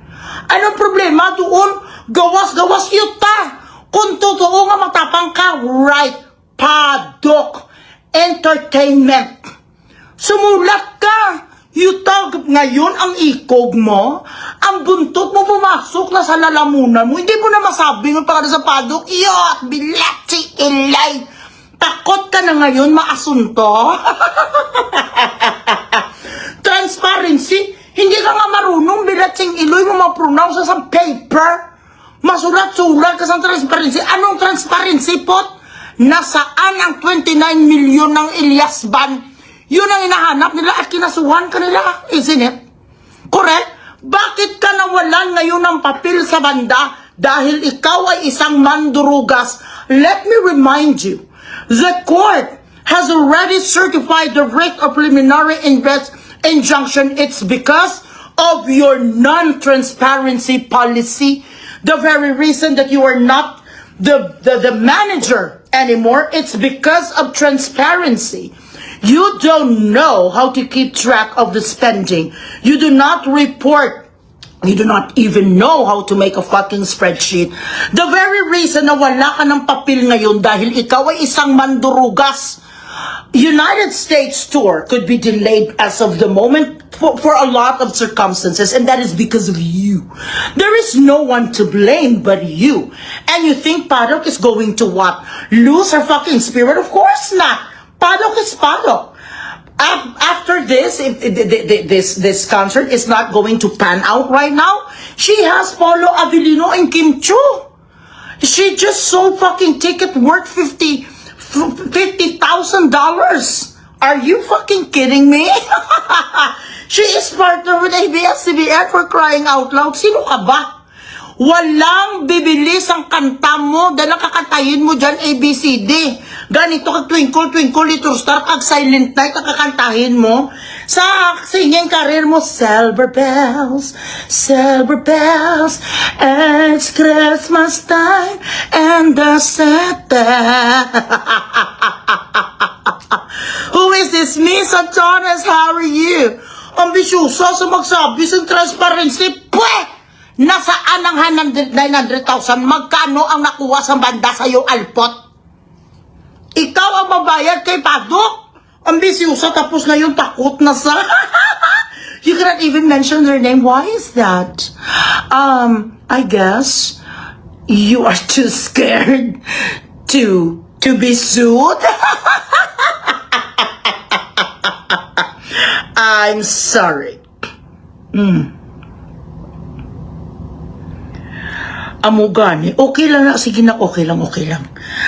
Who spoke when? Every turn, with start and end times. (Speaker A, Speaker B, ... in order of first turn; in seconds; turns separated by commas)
Speaker A: 0.5-9.4, Speaker A: 10.2-21.2, Speaker A: 21.8-26.0, Speaker A: 26.6-31.6, Speaker A: 32.2-42.6, Speaker A: 43.3-74.1, Speaker A: 74.6-82.6, Speaker A: 83.3-99.1, Speaker A: 99.8-107.7, Speaker A: 108.4-120.7, Speaker A: 121.4-155.2, Speaker A: 156.5-167.0, Speaker A: 167.7-169.4, Speaker A: 170.1-177.2, Speaker A: 178.1-178.5, Speaker A: 182.0-184.7